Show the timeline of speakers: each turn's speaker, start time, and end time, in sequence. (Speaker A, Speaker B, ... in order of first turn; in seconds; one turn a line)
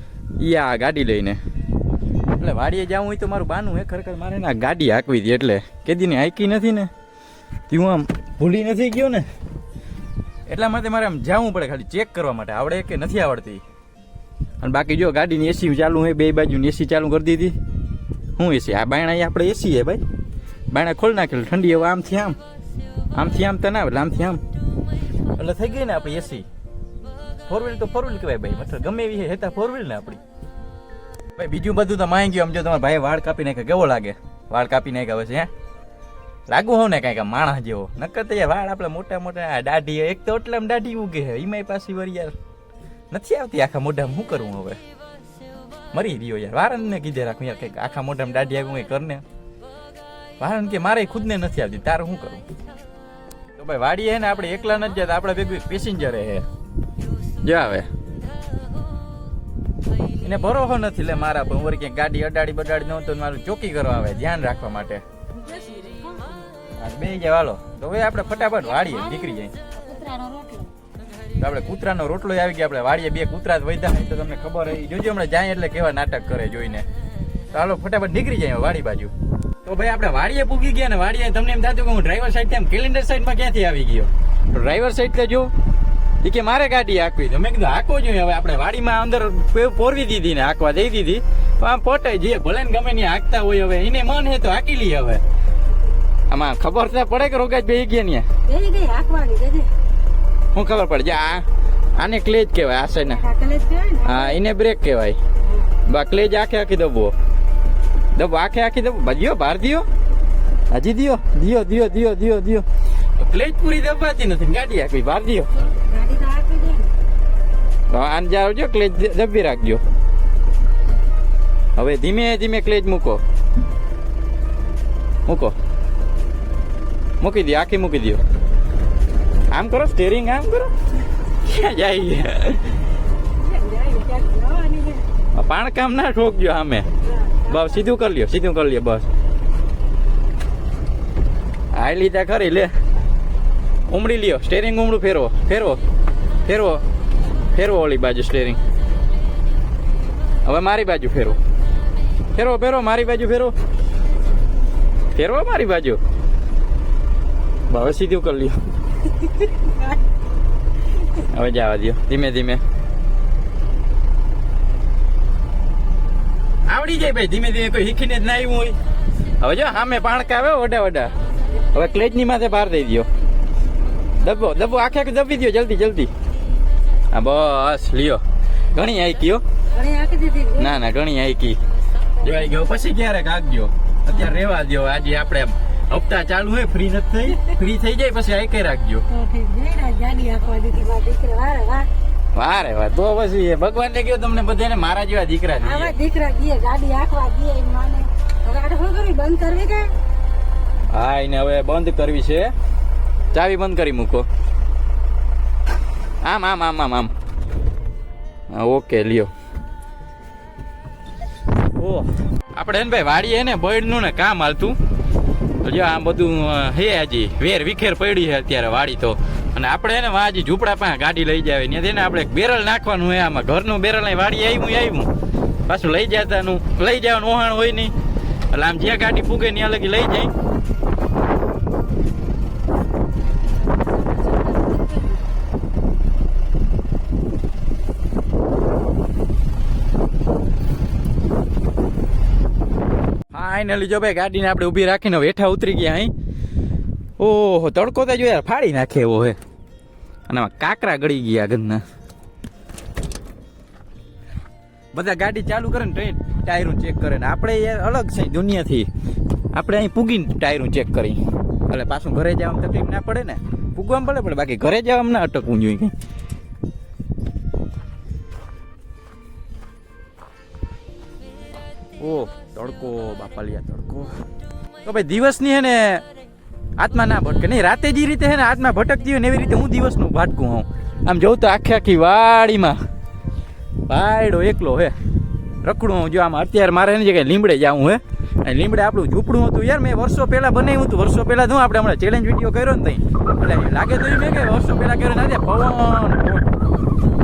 Speaker A: 0.4-1.4
Speaker A: 2.4-6.9
Speaker A: 7.7-9.2
Speaker A: 10.5-13.6
Speaker A: 14.6-17.6
Speaker A: 18.4-20.0
Speaker A: 20.7-22.4
Speaker A: 23.1-24.4
Speaker A: 25.4-26.4
Speaker A: 27.5-30.2
Speaker A: 31.4-35.5
Speaker A: 36.5-42.3
Speaker A: 43.1-44.8
Speaker A: 45.9-49.2
Speaker A: 50.4-52.4
Speaker A: 53.6-56.5
Speaker A: 57.4-57.9
Speaker A: 60.2-65.0
Speaker B: 65.3-66.4
Speaker A: 66.8-69.5
Speaker B: 68.6-70.7
Speaker A: 71.4-76.8
Speaker A: 77.5-79.1
Speaker A: 79.6-85.5
Speaker A: 86.2-95.2
Speaker A: 96.3-98.2
Speaker B: 98.5-99.7
Speaker A: 100.5-101.4
Speaker A: 102.0-103.2
Speaker B: 103.0-104.4
Speaker A: 104.0-105.2
Speaker B: 105.4-105.8
Speaker A: 105.8-107.1
Speaker A: 108.1-109.9
Speaker A: 110.7-112.7
Speaker A: 113.2-115.5
Speaker B: 115.6-116.9
Speaker A: 117.9-119.8
Speaker A: 121.8-123.2
Speaker A: 125.2-125.5
Speaker A: 127.2-128.2
Speaker A: 129.5-130.7
Speaker A: 131.4-132.8
Speaker B: 133.3-135.1
Speaker A: 135.3-136.9
Speaker B: 137.0-137.9
Speaker A: 137.5-139.1
Speaker A: 141.7-142.7
Speaker A: 143.9-145.8
Speaker A: 146.4-146.8
Speaker A: 147.5-148.6
Speaker A: 150.4-151.4
Speaker A: 152.3-153.5
Speaker A: 155.1-156.0
Speaker A: 157.7-158.6
Speaker B: 159.4-160.0
Speaker A: 161.2-162.6
Speaker A: 166.7-168.8
Speaker A: 169.4-171.1
Speaker A: 171.7-173.1
Speaker A: 174.2-176.1
Speaker A: 177.1-178.2
Speaker A: 178.7-179.4
Speaker B: 179.7-180.7
Speaker A: 180.6-181.6
Speaker A: 182.2-189.1
Speaker B: 182.2-182.6
Speaker B: 189.1-191.9
Speaker A: 192.3-195.9
Speaker B: 195.6-199.9
Speaker A: 200.9-202.5
Speaker A: 203.3-204.3
Speaker A: 206.2-207.1
Speaker A: 208.5-209.3
Speaker A: 211.8-214.8
Speaker A: 215.6-225.1
Speaker A: 225.7-227.9
Speaker A: 228.5-230.3
Speaker B: 233.5-235.2
Speaker A: 243.3-246.1
Speaker A: 247.2-249.4
Speaker A: 250.3-251.8
Speaker A: 254.9-258.9
Speaker A: 259.5-265.9
Speaker A: 272.0-274.1
Speaker A: 274.8-276.0
Speaker A: 276.8-282.8
Speaker A: 283.9-284.9
Speaker A: 285.6-296.4